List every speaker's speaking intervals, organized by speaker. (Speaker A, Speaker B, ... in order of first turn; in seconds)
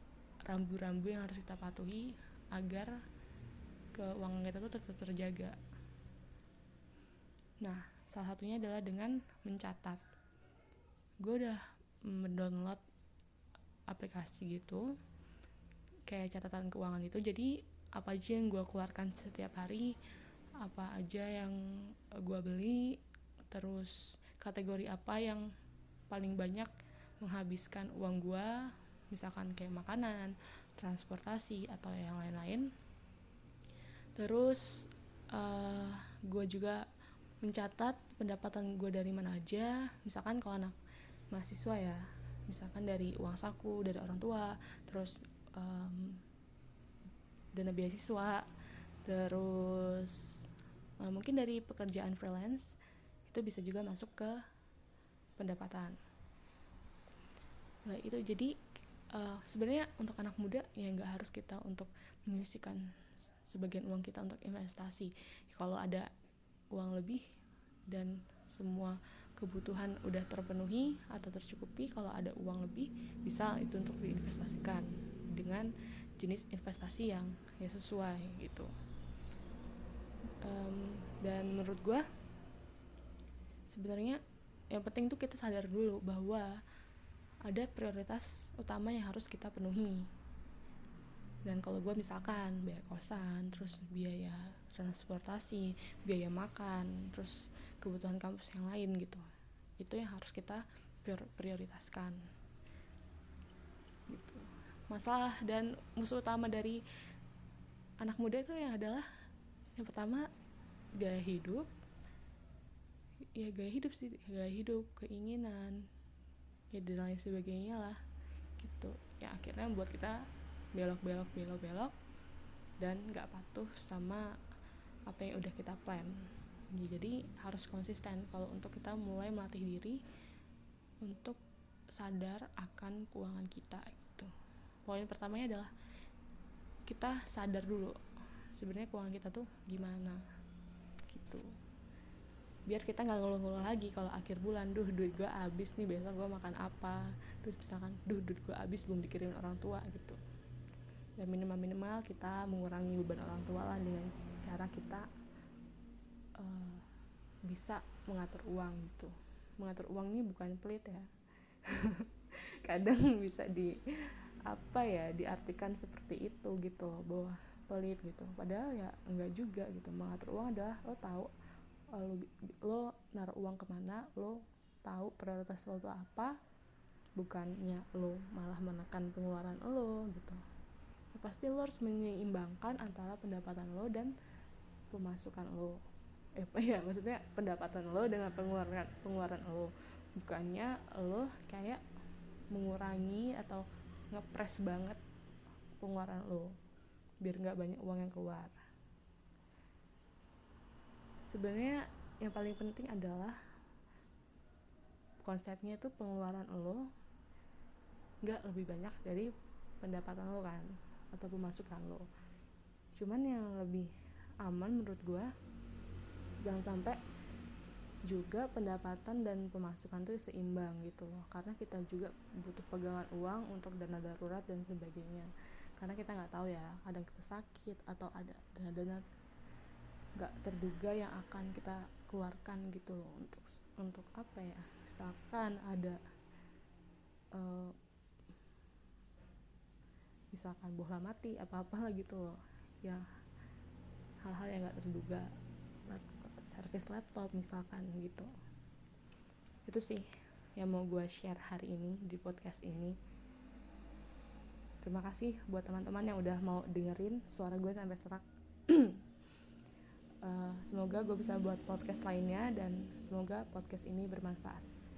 Speaker A: 0.5-3.0, 3.9-5.6, 7.6-10.0, 11.2-12.8, 13.9-14.9, 16.1-20.0, 20.6-25.5, 26.1-28.5, 29.1-32.7, 34.2-34.7, 35.3-36.8, 37.4-40.8, 41.3-46.2, 47.5-48.5, 49.0-50.3, 51.0-52.8, 53.3-54.4, 55.4-56.0, 57.9-58.5, 59.1-62.8, 63.5-66.1, 66.7-67.2, 67.9-78.7, 80.4-82.0, 83.7-84.2, 84.7-86.5, 87.5-90.1, 91.5-99.2, 99.8-102.2, 104.1-106.8, 108.0-109.1, 109.8-110.3, 111.0-111.7, 113.3-115.8, 116.7-118.0, 118.6-121.9, 122.8-124.3, 125.1-130.0, 131.0-131.4, 131.9-134.3, 134.8-135.7, 136.9-137.9, 138.6-140.2, 141.1-141.5, 142.7-150.2, 151.2-155.1, 156.4-156.8, 157.5-161.1, 161.6-162.1, 162.6-171.3, 171.9-176.3, 177.2-180.4, 181.1-184.2, 184.9-185.8, 186.4-191.8, 192.5-195.0, 195.8-196.5, 197.2-198.6, 201.3-203.4, 205.2-206.9, 208.2-209.3, 209.8-212.1, 213.0-213.9, 214.4-215.3, 216.4-217.0, 218.1-229.0, 230.2-236.0, 237.3-237.7, 240.3-243.1, 244.2-245.3, 245.9-248.3, 249.7-250.1, 250.6-253.0, 254.8-259.0, 260.2-264.7